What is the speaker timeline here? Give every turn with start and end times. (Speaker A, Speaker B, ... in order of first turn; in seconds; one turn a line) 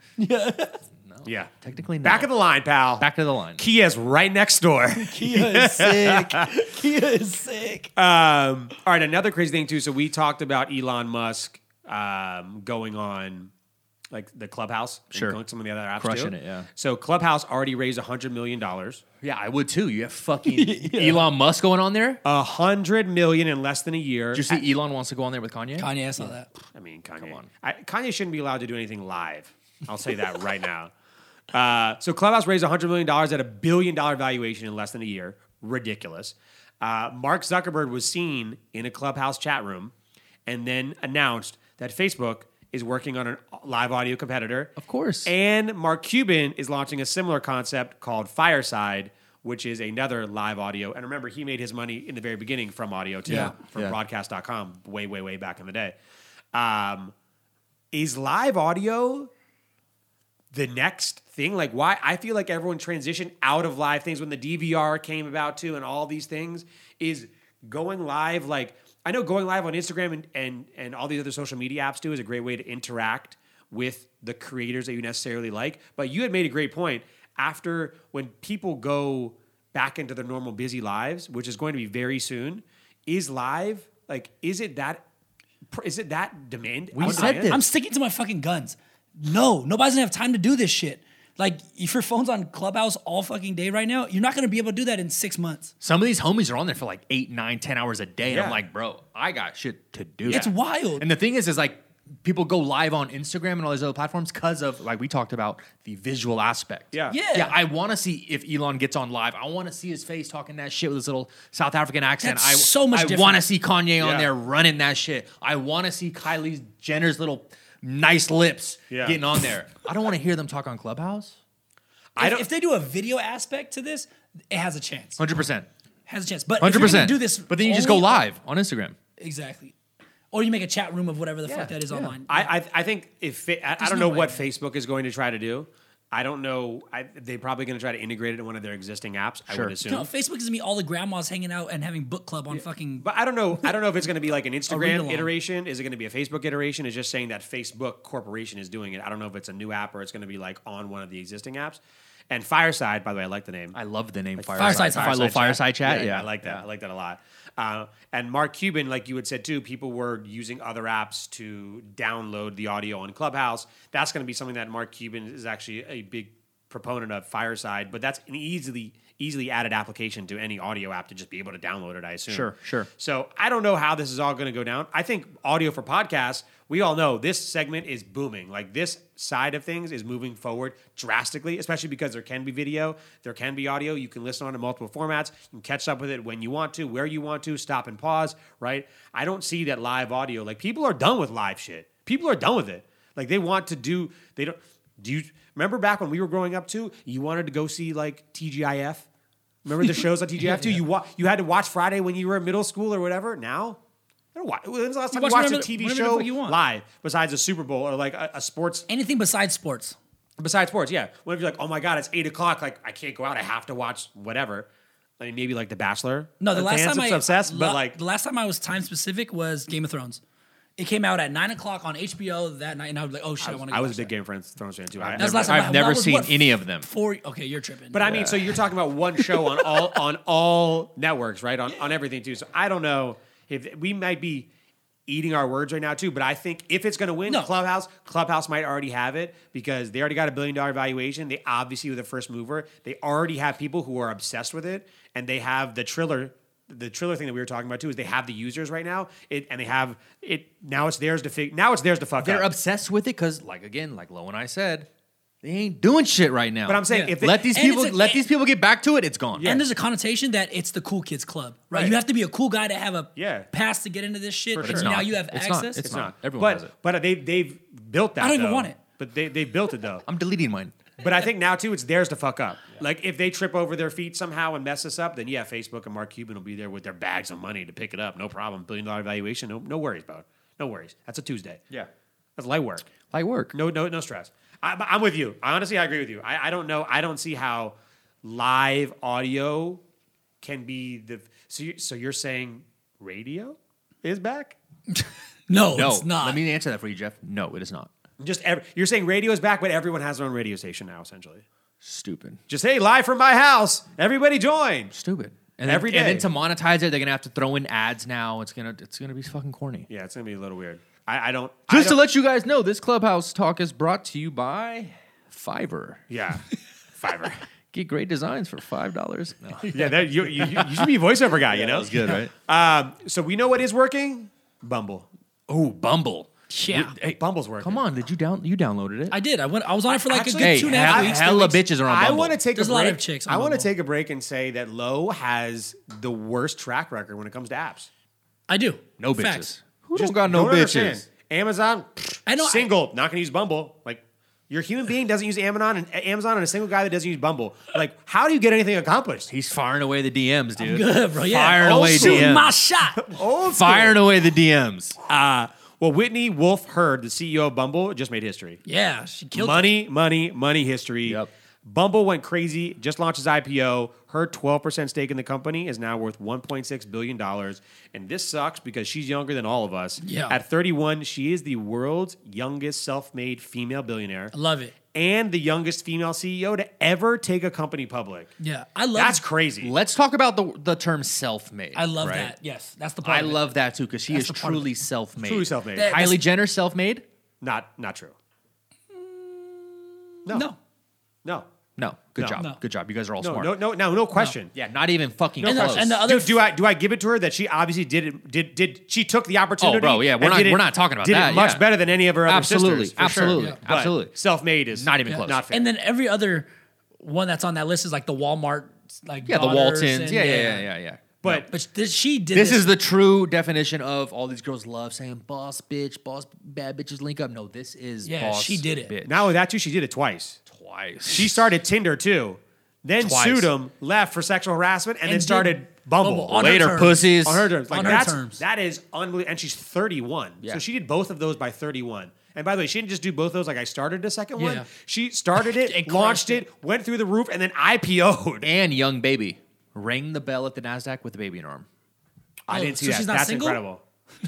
Speaker A: 0.2-0.8
Speaker B: 1.0-2.3
Speaker C: 1.2-6.5
Speaker B: 3.0-3.6
Speaker A: 4.9-7.9
Speaker C: 8.0-13.5
Speaker C: 14.1-19.0
Speaker B: 15.1-15.4
Speaker B: 16.0-16.7
Speaker B: 19.2-22.2
Speaker A: 20.4-21.3
Speaker C: 22.2-24.6
Speaker B: 24.3-26.3
Speaker A: 25.8-26.5
Speaker C: 26.7-30.9
Speaker B: 27.2-27.5
Speaker C: 31.5-39.9
Speaker C: 40.5-44.7
Speaker B: 44.8-45.3
Speaker C: 45.2-56.0
Speaker B: 53.2-54.0
Speaker C: 56.5-57.1
Speaker C: 57.9-59.3
Speaker C: 60.5-85.0
Speaker C: 85.7-87.6
Speaker B: 86.9-87.6
Speaker A: 87.0-95.7
Speaker B: 95.8-121.4
Speaker C: 98.3-98.6
Speaker C: 100.2-100.5
Speaker A: 100.3-101.0
Speaker C: 106.9-107.2
Speaker A: 107.1-107.6
Speaker A: 112.2-113.4
Speaker C: 114.0-114.3
Speaker C: 118.9-119.2
Speaker C: 122.2-122.5
Speaker A: 122.2-125.2
Speaker B: 125.2-125.7
Speaker A: 126.0-128.2
Speaker B: 126.6-128.9
Speaker A: 129.2-129.7
Speaker A: 130.3-132.5
Speaker B: 131.4-132.1
Speaker C: 132.3-140.1
Speaker A: 133.8-134.4
Speaker B: 139.5-139.8
Speaker A: 139.9-143.1
Speaker C: 142.5-153.8
Speaker A: 144.7-145.3
Speaker B: 153.7-156.7
Speaker C: 154.4-199.1
Speaker A: 154.6-155.5
Speaker B: 172.3-172.9
Speaker C: 199.6-203.8
Speaker A: 200.4-200.7
Speaker C: 204.3-208.8
Speaker A: 205.1-206.6
Speaker A: 208.9-210.0
Speaker C: 210.4-214.7
Speaker C: 215.2-218.0
Speaker A: 216.4-220.2
Speaker A: 220.8-224.1
Speaker C: 223.4-225.7
Speaker B: 225.0-226.9
Speaker A: 225.2-228.1
Speaker C: 227.9-234.5
Speaker B: 228.0-228.5
Speaker A: 229.4-229.9
Speaker C: 235.1-252.5
Speaker B: 252.2-254.9
Speaker B: 255.4-259.5
Speaker C: 256.6-257.6
Speaker A: 256.9-258.2
Speaker C: 259.4-259.7
Speaker A: 259.4-265.8
Speaker C: 263.1-263.5
Speaker C: 264.5-264.9
Speaker B: 264.6-266.7
Speaker C: 265.8-270.1
Speaker A: 268.2-268.8
Speaker B: 270.1-270.7
Speaker C: 271.0-281.6
Speaker C: 282.4-282.9
Speaker B: 283.1-283.5
Speaker C: 283.5-289.8
Speaker C: 290.4-294.6
Speaker A: 295.0-296.4
Speaker B: 295.7-297.9
Speaker C: 298.2-301.4
Speaker B: 301.8-302.4
Speaker C: 302.5-304.9
Speaker B: 304.9-309.9
Speaker C: 305.6-306.3
Speaker C: 309.9-312.0
Speaker B: 311.7-316.0
Speaker C: 316.1-316.4
Speaker C: 316.9-317.4
Speaker B: 317.7-319.7
Speaker C: 319.7-325.1
Speaker A: 320.5-320.8
Speaker B: 321.5-322.3
Speaker B: 325.5-329.2
Speaker A: 326.5-326.9
Speaker C: 327.1-327.8
Speaker A: 329.1-331.6
Speaker C: 330.1-337.9
Speaker B: 330.4-332.4
Speaker A: 332.6-333.7
Speaker A: 338.5-339.5
Speaker B: 339.0-341.0
Speaker C: 339.9-349.3
Speaker A: 342.3-342.7
Speaker B: 349.3-352.6
Speaker A: 350.6-353.1
Speaker C: 351.6-352.4
Speaker C: 353.0-354.0
Speaker B: 353.5-355.0
Speaker C: 355.1-358.6
Speaker A: 358.6-359.7
Speaker C: 359.3-374.3
Speaker A: 370.0-370.4
Speaker A: 374.3-374.8
Speaker C: 374.9-378.3
Speaker A: 378.4-379.2
Speaker C: 378.9-379.7
Speaker B: 379.6-382.3
Speaker A: 381.7-383.4
Speaker C: 382.0-382.3
Speaker B: 383.0-387.1
Speaker A: 384.1-384.7
Speaker C: 385.2-385.9
Speaker A: 385.7-386.2
Speaker C: 387.4-388.1
Speaker A: 388.9-390.6
Speaker B: 391.8-393.6
Speaker C: 392.1-392.4
Speaker C: 393.2-394.5
Speaker B: 394.5-396.0
Speaker A: 395.4-396.4
Speaker C: 395.4-405.6
Speaker B: 399.6-401.7
Speaker B: 402.2-404.1
Speaker B: 404.7-405.4
Speaker A: 405.1-410.7
Speaker B: 409.2-411.4
Speaker C: 411.2-411.5
Speaker A: 411.3-412.8
Speaker B: 412.3-419.2
Speaker A: 418.1-418.9
Speaker C: 419.1-420.4
Speaker B: 420.5-421.5
Speaker C: 421.1-438.5
Speaker B: 423.0-423.5
Speaker A: 425.1-427.1
Speaker B: 426.3-428.1
Speaker A: 427.7-428.4
Speaker A: 434.4-434.7
Speaker A: 435.4-436.4
Speaker B: 438.4-441.7
Speaker C: 442.5-443.8
Speaker A: 442.5-443.6